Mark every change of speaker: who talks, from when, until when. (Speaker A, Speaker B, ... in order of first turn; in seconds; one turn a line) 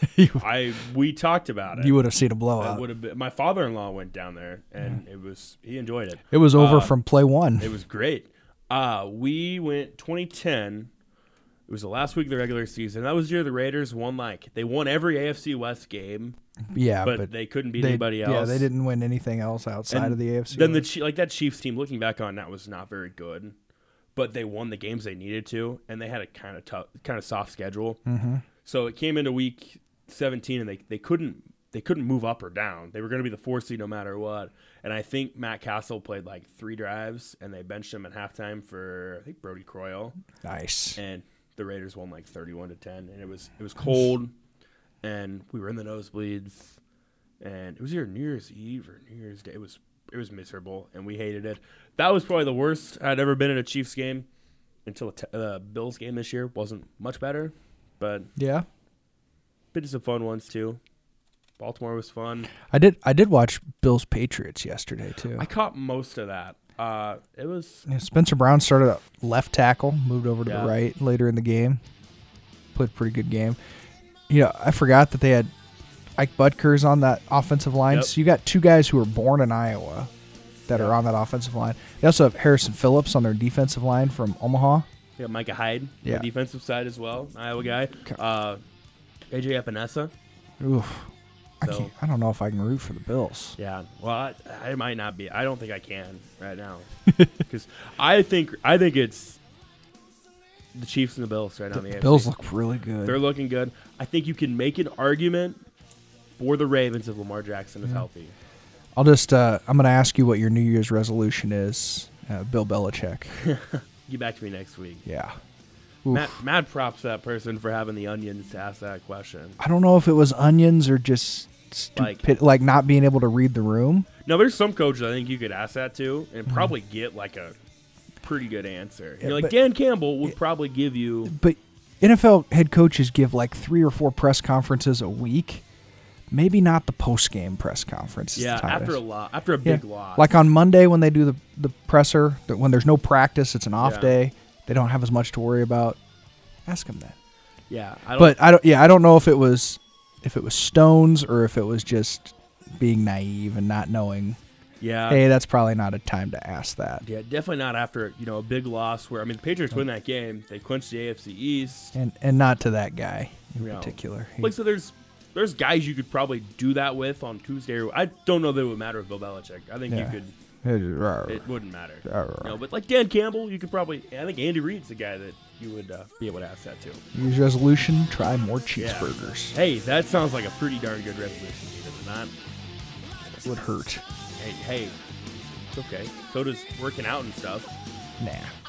Speaker A: 0.1-0.4
Speaker B: 0.4-2.0
Speaker A: 1.8-2.9
Speaker B: 2.6-7.0
Speaker A: 6.3-7.8
Speaker B: 7.6-10.9
Speaker B: 11.7-16.4
Speaker A: 16.7-20.9
Speaker B: 17.0-18.7
Speaker B: 19.9-23.6
Speaker B: 24.1-28.0
Speaker A: 28.1-28.4
Speaker B: 28.6-40.2
Speaker A: 40.4-41.0
Speaker B: 41.0-44.3
Speaker B: 45.0-46.8
Speaker B: 47.4-54.3
Speaker B: 54.9-58.3
Speaker A: 58.4-58.7
Speaker B: 59.7-60.8
Speaker B: 61.6-62.5
Speaker A: 62.7-65.5
Speaker B: 65.3-67.9
Speaker A: 67.9-71.8
Speaker B: 70.5-70.8
Speaker A: 72.7-73.6
Speaker A: 74.3-75.5
Speaker A: 76.2-80.1
Speaker B: 77.9-78.1
Speaker A: 80.7-84.9
Speaker B: 80.7-81.0
Speaker B: 85.2-88.6
Speaker B: 89.3-90.1
Speaker A: 90.6-91.1
Speaker A: 91.6-93.6
Speaker B: 91.6-91.9
Speaker B: 93.6-96.9
Speaker B: 97.4-99.4
Speaker B: 100.8-102.3
Speaker A: 101.7-103.2
Speaker B: 103.0-105.6
Speaker B: 106.4-108.3
Speaker A: 109.0-113.3
Speaker B: 113.4-115.0
Speaker A: 115.1-115.4
Speaker A: 116.0-116.4
Speaker B: 116.1-119.6
Speaker A: 119.6-124.1
Speaker B: 122.0-122.3
Speaker B: 124.2-127.5
Speaker A: 126.5-126.7
Speaker B: 128.2-131.3
Speaker A: 129.2-129.6
Speaker A: 131.3-135.6
Speaker A: 136.3-139.0
Speaker B: 138.3-140.3
Speaker A: 139.6-146.0
Speaker B: 143.8-144.2
Speaker A: 146.7-147.2
Speaker B: 147.7-148.4
Speaker A: 148.2-154.4
Speaker B: 154.8-155.2
Speaker A: 155.1-157.0
Speaker B: 157.0-161.9
Speaker A: 161.9-164.6
Speaker B: 163.6-170.3
Speaker A: 169.9-171.4
Speaker B: 171.3-177.0
Speaker A: 172.1-172.6
Speaker A: 177.1-179.6
Speaker B: 178.8-182.3
Speaker A: 183.4-184.0
Speaker B: 184.4-185.0
Speaker B: 185.7-187.7
Speaker A: 188.2-188.5